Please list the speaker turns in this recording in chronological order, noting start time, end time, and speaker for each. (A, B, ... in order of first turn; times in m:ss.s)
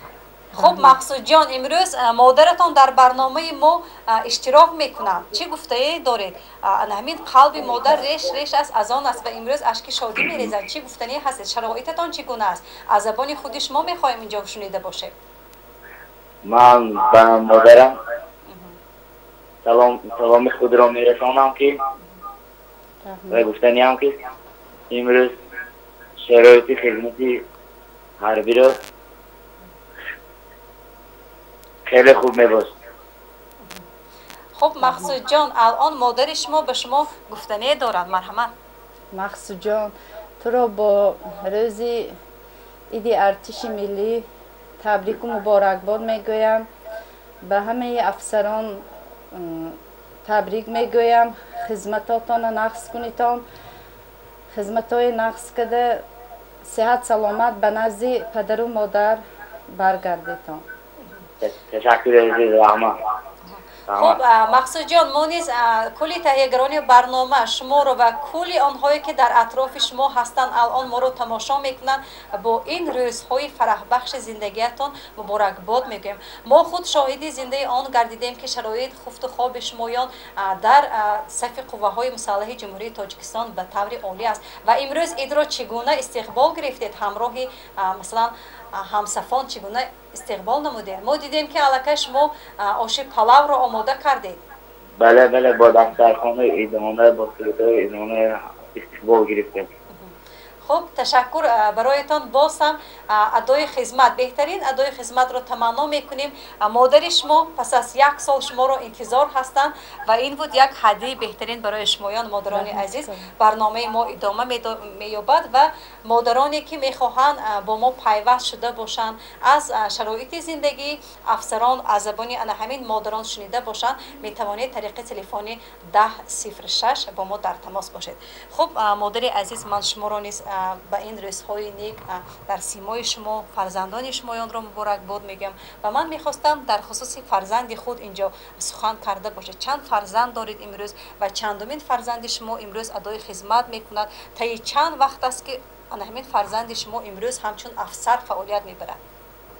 0:00.5-0:15.1 A
0:00.6-0:01.0 B
0:16.4-0:17.9 C
0:18.5-0:18.7 A
0:19.6-0:21.7 C
0:23.0-0:23.5 B
0:23.3-0:24.1 C
0:24.9-0:25.3 C
0:26.3-0:27.4 C
0:28.2-0:28.7 C
0:31.9-0:32.7 C
0:34.6-0:38.5 A
0:34.8-0:35.1 B
0:39.1-0:42.1 B
0:42.9-0:44.2 B
0:44.8-0:46.7 B
0:47.4-0:53.4 B
0:54.5-0:56.0 B
0:56.6-1:00.6 B
1:01.4-1:02.9 C
1:03.5-1:34.4 A
1:03.9-1:04.2 C
1:35.0-1:39.6 C
1:40.6-2:29.0 A
1:52.5-1:53.3 B